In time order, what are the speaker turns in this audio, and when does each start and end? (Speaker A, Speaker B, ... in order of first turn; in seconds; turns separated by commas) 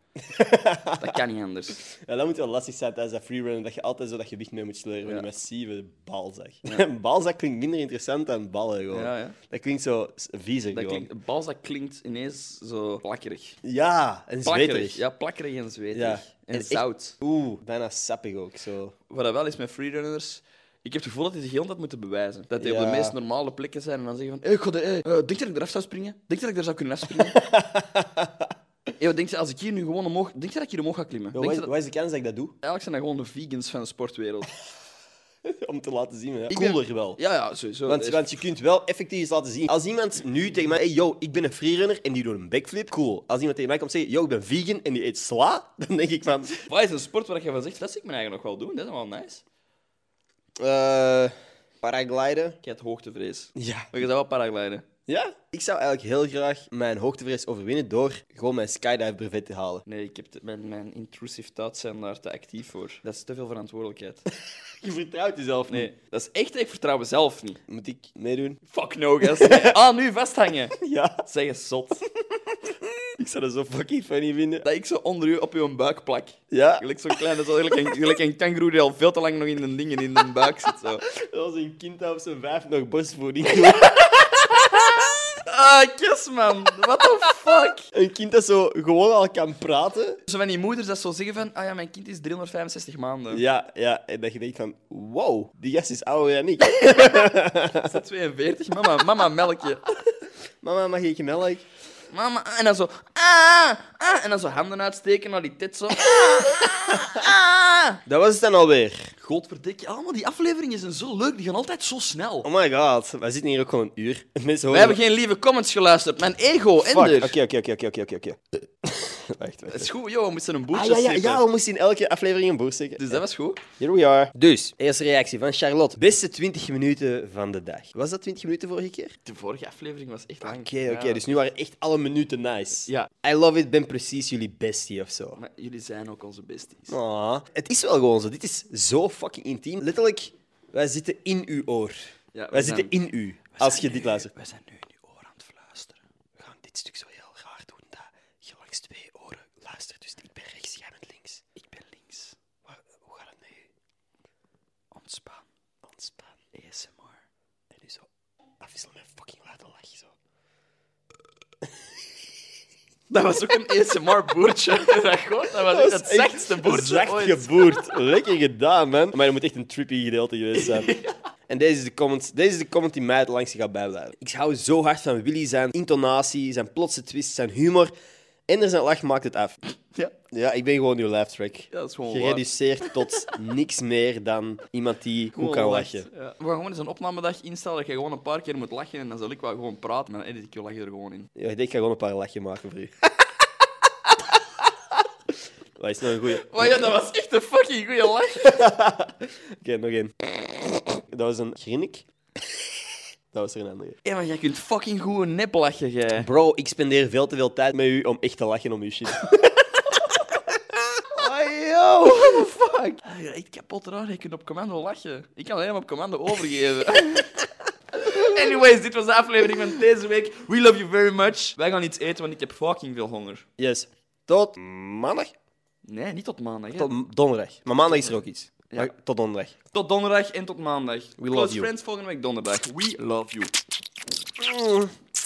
Speaker A: 0.2-1.1, Speaker B: 1.0-1.8, Speaker A: 1.8-11.1, Speaker B: 5.0-5.3, Speaker B: 8.9-9.4, Speaker B: 10.7-13.6, Speaker A: 13.6-15.0, Speaker B: 14.4-17.1, Speaker A: 15.9-18.9, Speaker B: 19.1-27.4, Speaker A: 22.6-23.2, Speaker A: 27.2-28.5, Speaker B: 29.0-31.7, Speaker A: 31.3-32.5, Speaker B: 32.6-34.5, Speaker A: 35.4-37.2, Speaker B: 36.5-38.5, Speaker A: 37.9-46.6, Speaker B: 46.6-49.4, Speaker A: 50.6-52.6, Speaker B: 52.6-54.8, Speaker A: 53.5-53.9, Speaker A: 55.1-59.8, Speaker B: 59.9-64.2, Speaker A: 64.8-65.9, Speaker B: 65.7-67.6, Speaker A: 67.7-68.6, Speaker B: 68.7-72.0, Speaker A: 69.2-69.8, Speaker A: 70.8-71.2, Speaker A: 72.8-74.6, Speaker B: 74.6-81.0, Speaker A: 76.5-77.2, Speaker A: 81.0-85.0, Speaker B: 83.5-84.8, Speaker B: 85.4-87.9, Speaker A: 87.9-90.2, Speaker B: 90.3-93.4, Speaker A: 93.3-98.0, Speaker B: 96.7-97.3, Speaker B: 97.8-99.8, Speaker A: 100.6-101.6, Speaker B: 102.1-108.0, Speaker A: 106.0-107.2, Speaker A: 108.0-109.2, Speaker B: 109.2-112.5, Speaker A: 112.4-115.0, Speaker B: 114.7-117.4, Speaker A: 116.8-119.9, Speaker B: 119.7-121.4, Speaker A: 120.7-129.1, Speaker B: 123.0-123.7, Speaker B: 129.2-131.3, Speaker A: 130.4-135.4, Speaker B: 135.4-136.9, Speaker A: 136.9-141.9, Speaker B: 142.3-142.9, Speaker A: 142.5-144.3, Speaker B: 143.5-146.0, Speaker A: 146.4-151.4, Speaker B: 151.6-152.4, Speaker A: 152.6-153.7, Speaker B: 154.9-155.5, Speaker A: 155.8-156.4, Speaker B: 156.5-157.2, Speaker A: 157.7-158.1, Speaker A: 158.6-160.1, Speaker B: 163.1-168.0, Speaker A: 165.6-171.0, Speaker B: 170.5-171.1, Speaker A: 171.5-177.9, Speaker A: 178.5-179.6, Speaker A: 180.2-186.1, Speaker B: 181.7-183.3, Speaker B: 185.3-191.3, Speaker A: 191.3-192.9, Speaker A: 195.8-196.8, Speaker B: 196.2-198.7, Speaker A: 198.4-202.0, Speaker A: 203.3-204.0, Speaker B: 204.0-206.3, Speaker A: 206.2-209.5, Speaker B: 211.1-223.4, Speaker A: 223.6-225.3, Speaker B: 225.8-227.0, Speaker A: 226.7-229.6, Speaker B: 227.8-228.9, Speaker B: 229.7-233.5, Speaker A: 231.2-231.7, Speaker A: 234.4-234.9